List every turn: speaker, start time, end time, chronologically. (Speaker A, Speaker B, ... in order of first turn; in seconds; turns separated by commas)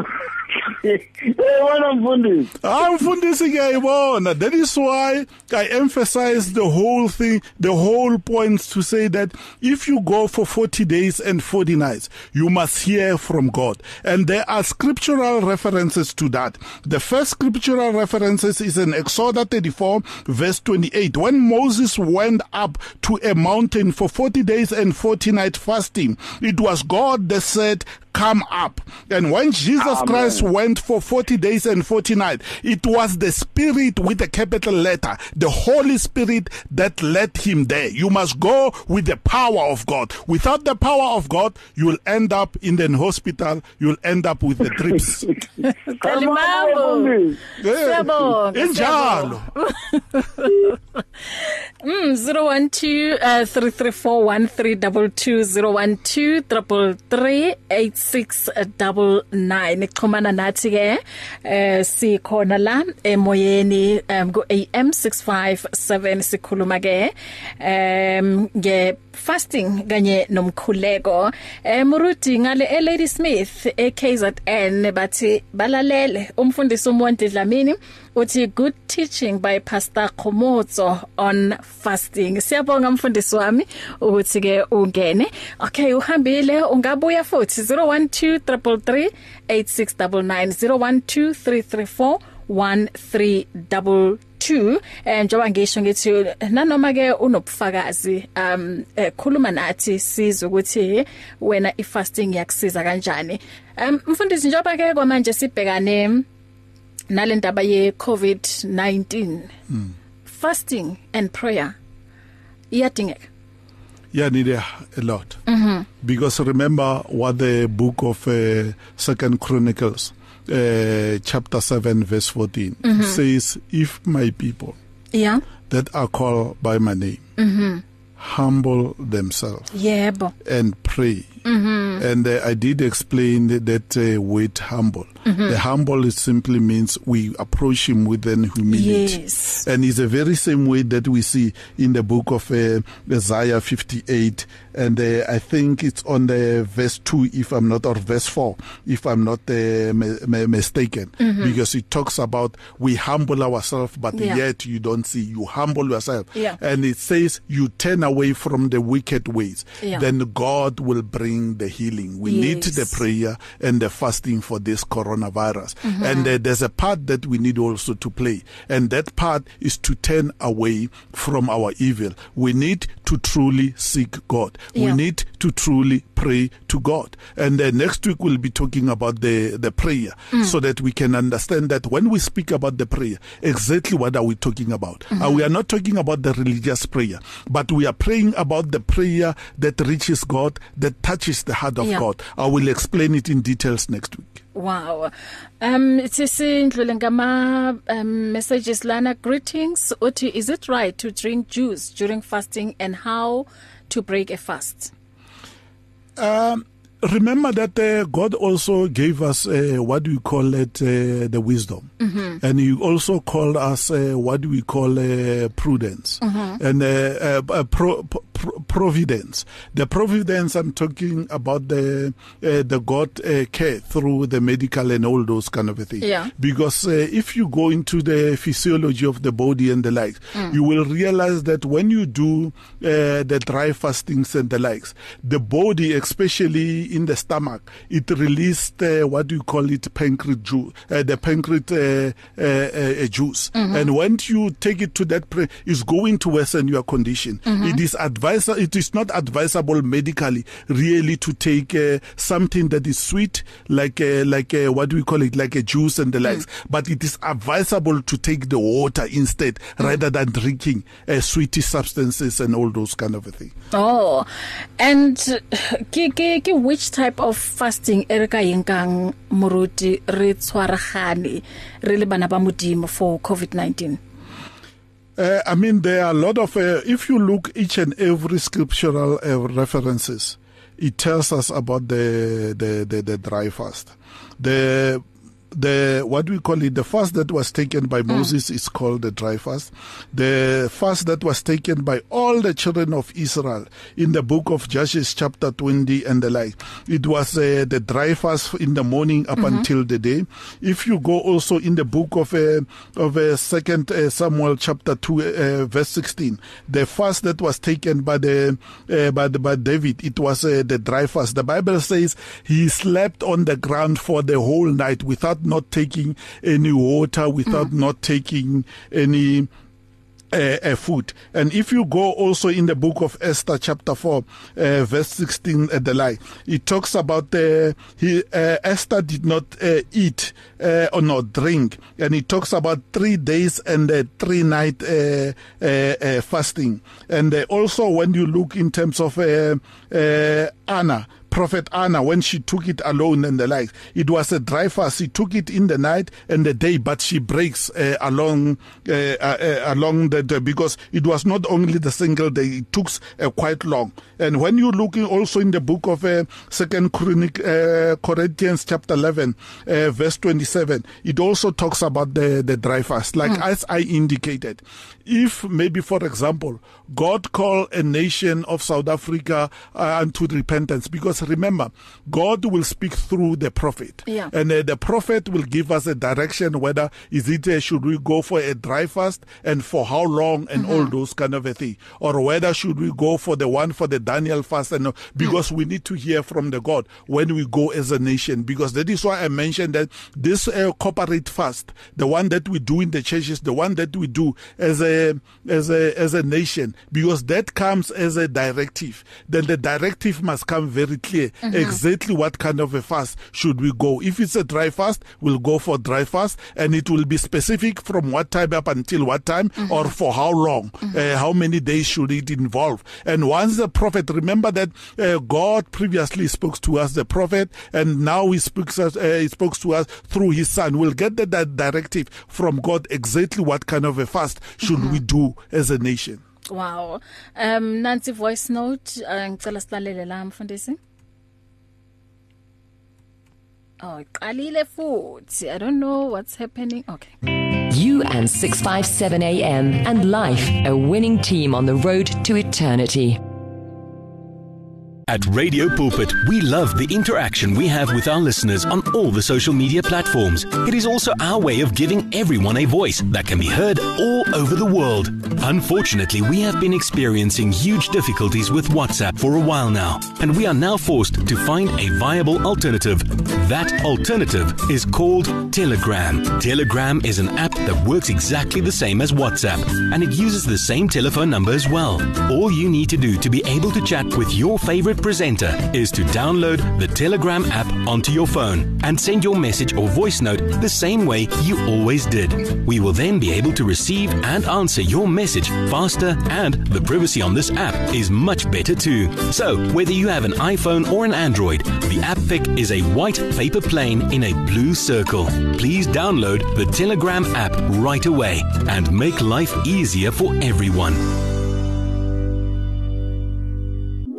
Speaker A: 0.6-2.5, Speaker B: 2.6-45.3, Speaker A: 29.8-30.4, Speaker C: 45.6-47.2, Speaker A: 46.0-47.4, Speaker B: 47.6-49.5, Speaker C: 47.8-50.8, Speaker C: 51.4-106.3, Speaker C: 107.1-109.5, Speaker C: 110.3-111.8, Speaker C: 112.7-113.3, Speaker B: 114.1-115.4, Speaker C: 115.5-115.9, Speaker B: 116.0-124.8, Speaker C: 122.8-123.2, Speaker C: 125.1-125.4, Speaker B: 125.7-127.2, Speaker C: 127.4-127.8, Speaker B: 128.2-129.7, Speaker C: 129.7-130.3, Speaker B: 130.4-131.4, Speaker C: 131.4-132.0, Speaker B: 132.0-194.4, Speaker C: 135.3-135.6, Speaker C: 138.7-139.6, Speaker C: 151.2-151.6, Speaker C: 154.1-154.4, Speaker C: 162.2-163.0, Speaker C: 165.8-166.3, Speaker C: 174.7-175.0, Speaker C: 185.1-185.4, Speaker C: 194.6-204.9, Speaker B: 206.2-263.5, Speaker C: 212.0-212.4, Speaker C: 216.2-216.6, Speaker C: 226.0-226.3, Speaker C: 243.6-243.9, Speaker C: 247.5-247.8, Speaker C: 263.7-274.0, Speaker B: 275.2-319.5, Speaker C: 299.4-299.7, Speaker B: 320.3-426.2, Speaker C: 374.1-374.3, Speaker C: 380.6-380.9, Speaker C: 401.4-401.8, Speaker C: 424.7-425.0, Speaker C: 426.5-430.8, Speaker C: 433.8-437.1, Speaker D: 437.7-443.2, Speaker E: 445.1-501.1